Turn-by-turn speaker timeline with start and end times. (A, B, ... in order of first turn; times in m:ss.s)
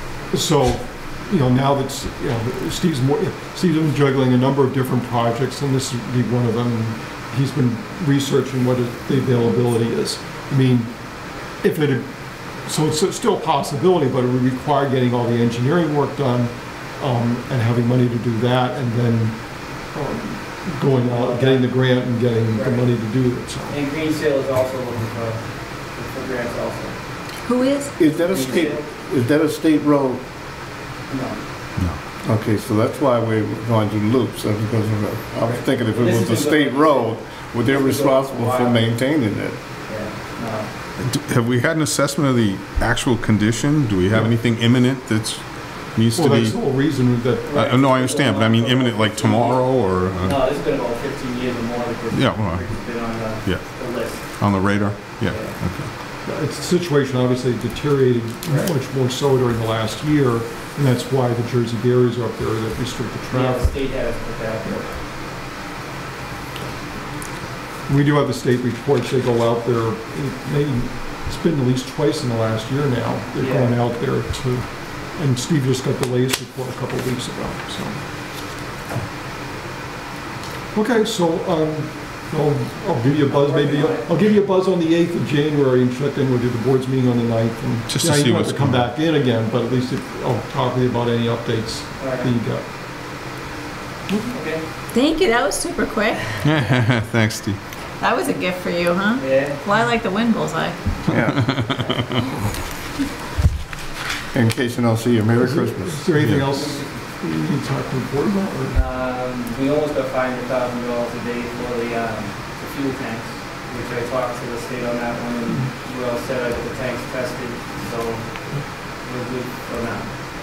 0:00.3-0:10.9 A
0:11.5-0:12.1 A
0:12.6-0:19.4 A
0:19.9-0:23.8 A
0:21.0-0:21.7 B
0:22.5-0:22.9 B
0:23.7-0:27.0 B
0:27.4-0:27.9 C
0:28.0-0:30.2 D
0:28.0-0:28.8 B
0:31.1-0:31.4 B
0:32.2-0:39.6 D
0:35.4-0:38.9 B
0:39.9-0:40.7 B
0:41.0-0:46.6 E
0:46.1-0:47.6 A
0:47.5-0:54.3 B
0:47.5-0:50.4 E
0:52.1-0:52.8 E
0:53.4-0:53.7 E
0:54.4-0:55.9 E
0:55.2-0:55.6 B
0:56.2-1:03.8 A
1:03.3-1:04.7 B
1:07.9-1:18.0 A
1:13.4-1:13.7 B
1:20.7-1:32.6 A
1:23.1-1:24.4 B
1:27.9-1:28.9 E
1:32.0-1:32.3 B
1:34.3-1:34.6 B
1:34.9-1:36.3 C
1:36.4-1:37.6 E
1:38.0-1:40.8 C
1:39.2-1:39.6 B
1:41.1-1:41.6 D
1:41.2-1:41.9 E
1:44.3-1:46.1 D
1:45.4-1:48.8 A
1:46.2-1:46.5 E
1:46.5-1:46.9 B
1:48.7-1:58.3 B
1:59.0-2:00.1 B